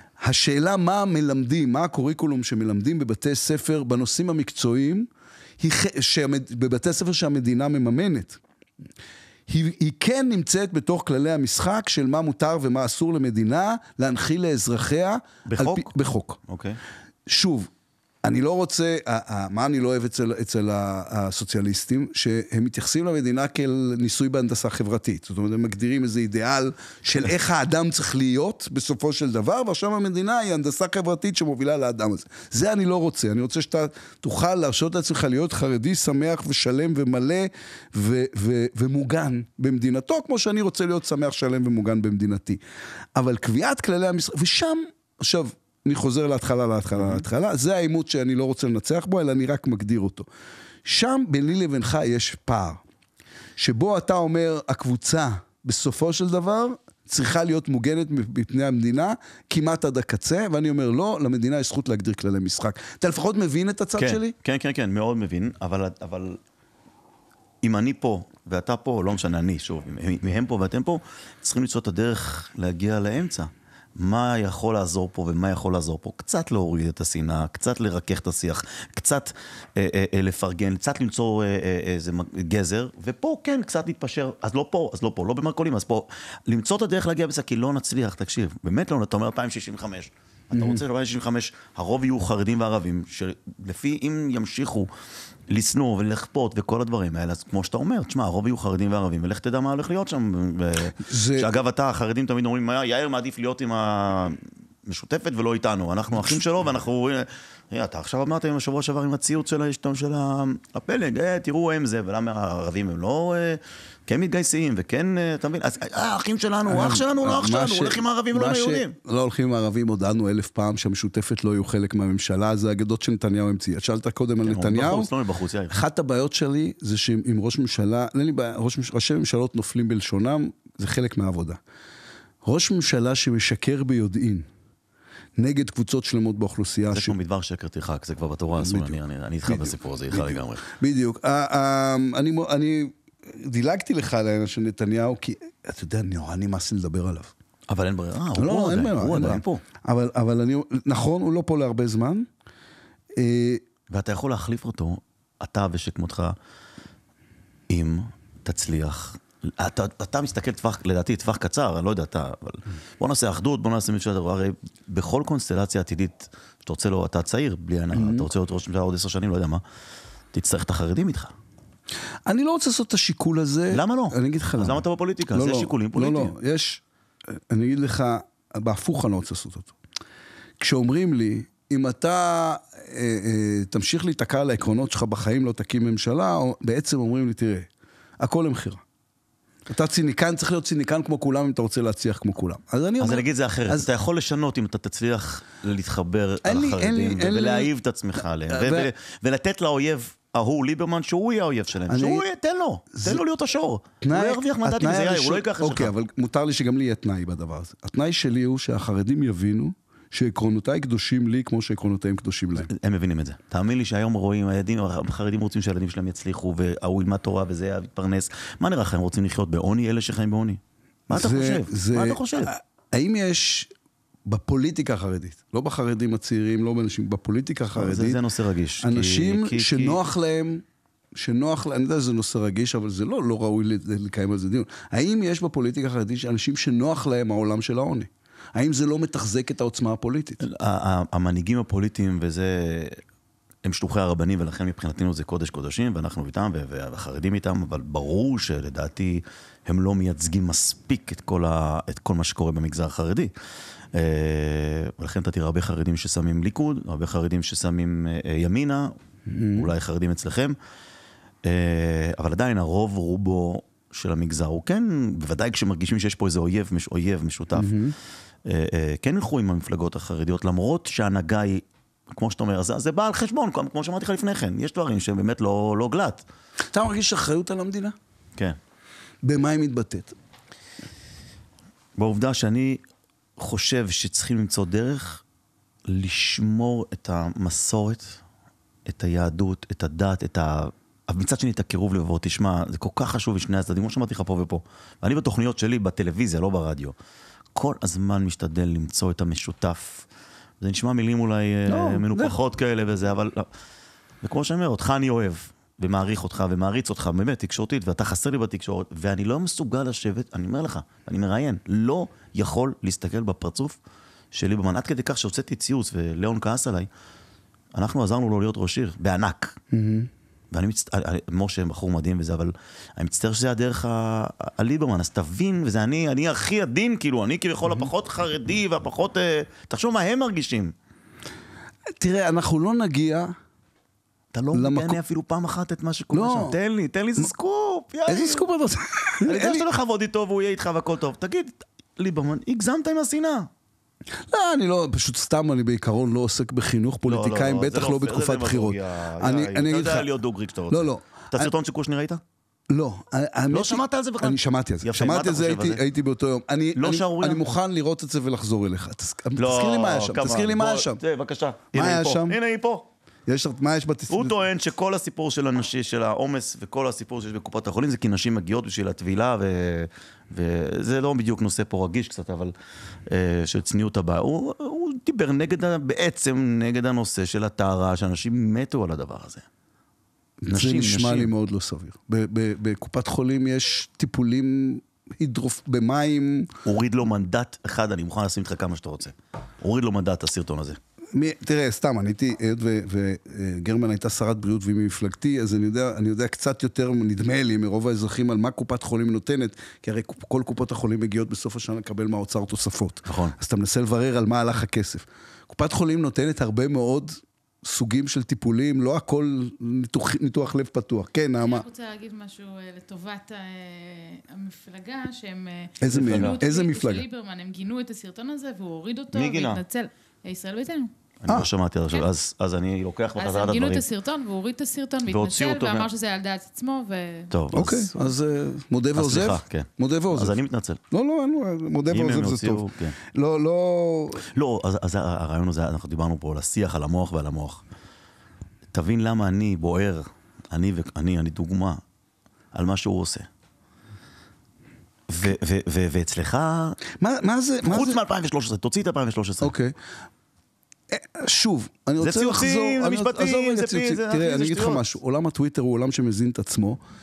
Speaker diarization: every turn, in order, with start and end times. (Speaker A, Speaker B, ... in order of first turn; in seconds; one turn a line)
Speaker A: 0.2-5.1
Speaker A: 5.6-8.4
Speaker A: 9.5-16.4
Speaker B: 15.4-16.8
Speaker A: 17.3-17.7
Speaker A: 18.2-42.6
Speaker A: 43.2-50.3
Speaker B: 47.0-47.3
Speaker A: 50.9-52.8
Speaker A: 53.6-64.3
Speaker B: 64.0-66.4
Speaker B: 67.6-94.9
Speaker A: 90.5-90.8
Speaker B: 95.5-119.0
Speaker A: 101.0-101.5
Speaker A: 116.7-125.1
Speaker B: 124.4-125.8
Speaker A: 125.7-131.6
Speaker A: 132.4-134.5
Speaker A: 135.4-137.2
Speaker B: 136.9-140.6
Speaker A: 138.6-147.3
Speaker B: 147.7-149.6
Speaker A: 148.4-152.3
Speaker A: 153.2-153.6
Speaker B: 153.9-156.4
Speaker B: 157.7-169.6
Speaker A: 167.9-168.3
Speaker B: 170.3-171.3
Speaker A: 172.3-179.7
Speaker B: 173.7-176.3
Speaker A: 180.6-187.7
Speaker A: 188.2-188.8
Speaker A: 189.7-193.9
Speaker B: 193.0-205.9
Speaker A: 196.4-197.7
Speaker A: 198.5-198.9
Speaker A: 201.9-202.2
Speaker A: 202.9-203.2
Speaker A: 204.0-212.7
Speaker B: 212.6-222.5
Speaker A: 221.1-223.7
Speaker A: 224.3-228.2
Speaker B: 227.7-230.0
Speaker A: 228.8-230.6
Speaker A: 231.2-240.4
Speaker B: 240.4-243.0
Speaker B: 243.6-253.3
Speaker B: 253.9-258.9
Speaker A: 259.3-259.7
Speaker B: 259.5-260.6
Speaker B: 261.4-267.8
Speaker A: 267.6-267.9
Speaker B: 268.4-276.2
Speaker A: 276.7-278.0
Speaker A: 279.2-280.2
Speaker B: 282.0-282.8
Speaker B: 283.4-285.2
Speaker B: 285.9-288.2
Speaker B: 288.9-297.0
Speaker B: 297.5-300.1
Speaker B: 300.6-303.5
Speaker A: 301.7-302.4
Speaker B: 304.2-313.8
Speaker B: 314.3-316.9
Speaker B: 317.7-319.6
Speaker A: 319.7-320.1
Speaker B: 320.5-330.7
Speaker A: 332.0-333.4
Speaker B: 334.3-338.5
Speaker A: 334.5-335.0
Speaker A: 336.1-336.6
Speaker A: 338.1-339.7
Speaker B: 339.2-343.5
Speaker A: 344.3-350.1
Speaker B: 347.1-352.2
Speaker A: 350.7-351.5
Speaker A: 352.7-361.0
Speaker B: 353.5-355.8
Speaker B: 356.8-357.4
Speaker B: 359.4-362.9
Speaker A: 361.7-362.4
Speaker A: 363.3-364.4
Speaker B: 364.1-372.5
Speaker B: 373.1-379.5
Speaker A: 380.4-386.5
Speaker B: 380.5-381.3
Speaker B: 386.6-390.8
Speaker A: 391.1-411.6
Speaker B: 403.1-403.4
Speaker C: 411.4-420.9
Speaker A: 415.8-417.1
Speaker B: 415.9-416.4
Speaker B: 419.1-419.6
Speaker B: 421.2-423.8
Speaker C: 423.2-427.3
Speaker B: 425.1-425.9
Speaker B: 427.3-427.9
Speaker A: 427.5-430.4
Speaker B: 428.9-430.8
Speaker A: 430.9-434.3
Speaker B: 431.9-432.9
Speaker B: 434.2-437.6
Speaker B: 438.7-441.8
Speaker B: 442.5-443.3
Speaker B: 445.1-446.8
Speaker A: 447.0-448.0
Speaker B: 447.6-449.5
Speaker A: 449.4-449.8
Speaker A: 450.9-456.8
Speaker B: 452.0-454.9